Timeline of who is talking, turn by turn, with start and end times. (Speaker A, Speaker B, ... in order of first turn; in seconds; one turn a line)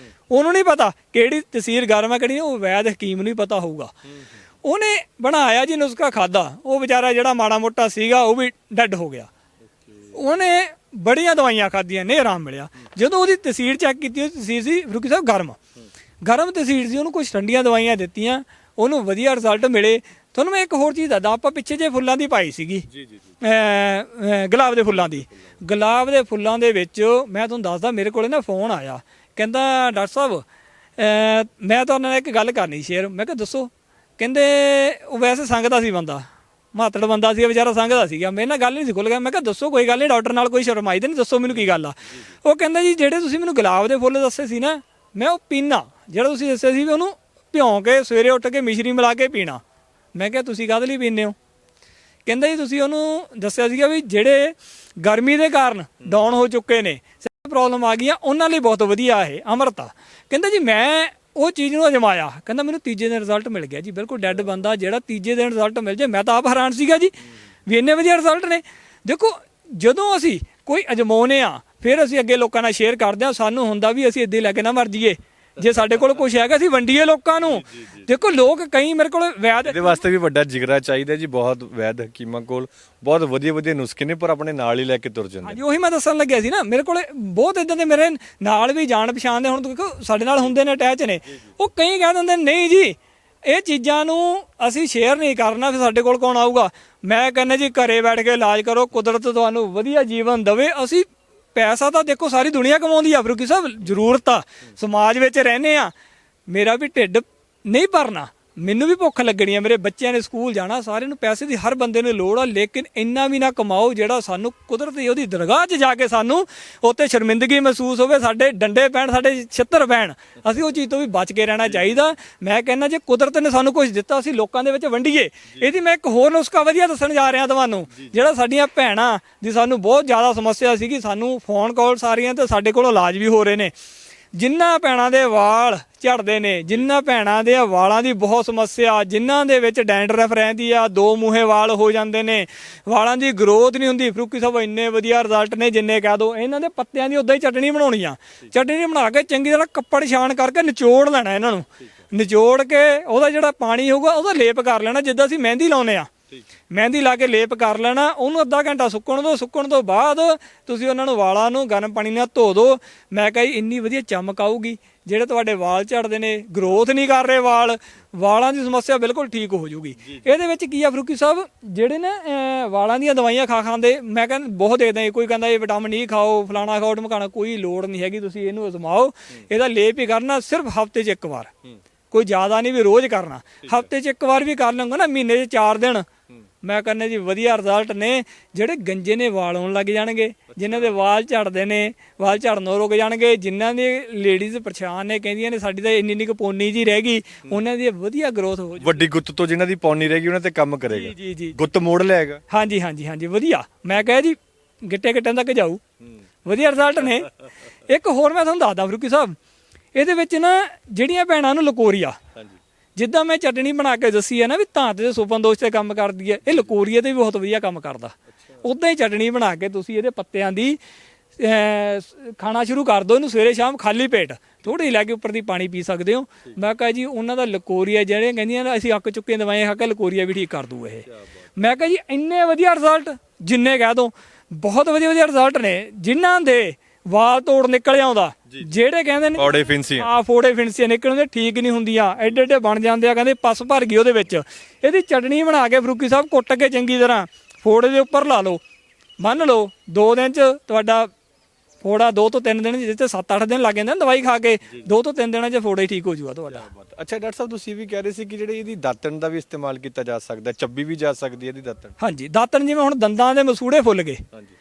Speaker A: 0.3-3.9
Speaker A: 4.6-9.3
Speaker B: 9.8-10.2
Speaker A: 10.1-15.6
Speaker A: 16.2-22.9
Speaker B: 22.9-23.2
Speaker A: 23.4-30.4
Speaker A: 31.0-49.6
Speaker A: 50.1-51.4
Speaker A: 52.2-67.1
Speaker A: 67.7-80.0
Speaker B: 77.6-78.0
Speaker B: 79.7-85.6
Speaker A: 85.4-105.9
Speaker A: 106.5-133.7
Speaker A: 134.3-156.1
Speaker A: 156.7-181.5
Speaker A: 182.1-186.1
Speaker B: 183.6-183.9
Speaker A: 186.6-199.1
Speaker B: 190.5-190.9
Speaker B: 198.8-202.4
Speaker A: 200.9-201.6
Speaker A: 202.5-205.8
Speaker A: 206.4-207.3
Speaker A: 207.9-209.4
Speaker A: 209.9-212.2
Speaker A: 212.9-220.8
Speaker A: 221.4-231.0
Speaker A: 231.6-248.6
Speaker B: 239.3-240.1
Speaker A: 249.2-251.1
Speaker A: 251.8-256.7
Speaker B: 256.5-261.9
Speaker A: 262.0-264.2